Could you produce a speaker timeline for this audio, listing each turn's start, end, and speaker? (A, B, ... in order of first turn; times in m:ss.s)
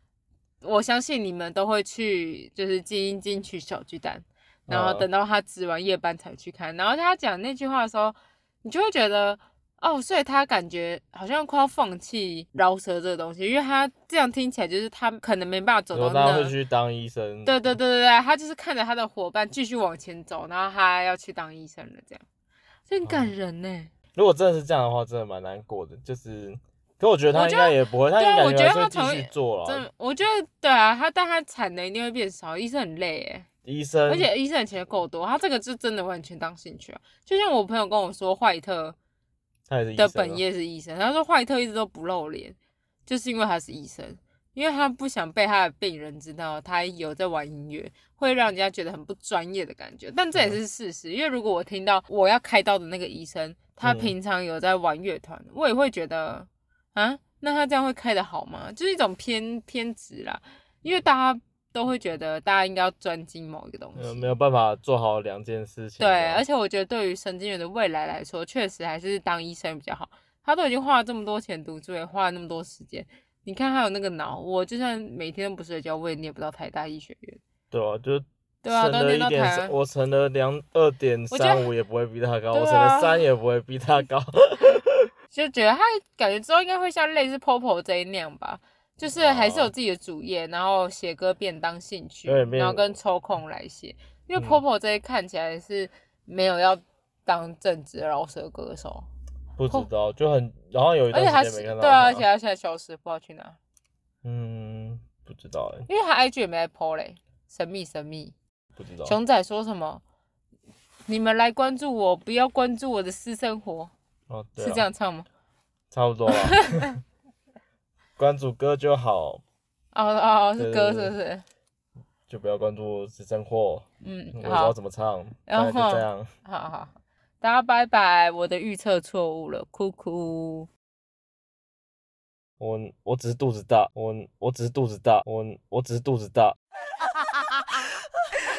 0:00.6-0:16.5 A
0:04.7-0:05.1 B
0:15.9-0:17.8 B
0:17.4-0:22.2 A
0:22.9-0:23.9 A
0:23.0-0:23.3 B
0:24.1-0:29.8 B
0:27.3-0:33.5 A
0:33.6-0:34.3 B
0:34.1-0:39.0 A
0:39.7-0:40.4 B
0:40.0-1:04.3 A
0:53.8-0:54.1 B
1:04.0-1:06.4 B
1:06.0-1:17.4 A
1:17.7-1:25.1 B
1:18.6-1:19.7 A
1:21.3-1:21.7 A
1:22.5-1:23.2 A
1:25.3-1:39.1 A
1:29.1-1:29.7 B
1:32.2-1:32.9 B
1:34.4-1:34.6 B
1:39.6-1:42.2 B
1:41.1-1:43.6 A
1:44.2-1:45.9 B
1:45.9-1:48.3 A
1:48.8-1:49.2 B
1:49.0-1:50.0 A
1:51.1-1:53.9 A
1:54.3-1:54.8 B
1:54.6-1:55.3 A
1:55.9-1:57.0 B
1:56.3-1:56.9 A
1:58.2-1:59.4 B
1:59.9-2:01.4 A
2:00.6-2:01.1 B
2:02.3-2:03.8 B
2:04.0-2:04.8 A
2:04.4-2:06.3 B
2:05.4-2:10.7 A
2:12.6-2:16.6 B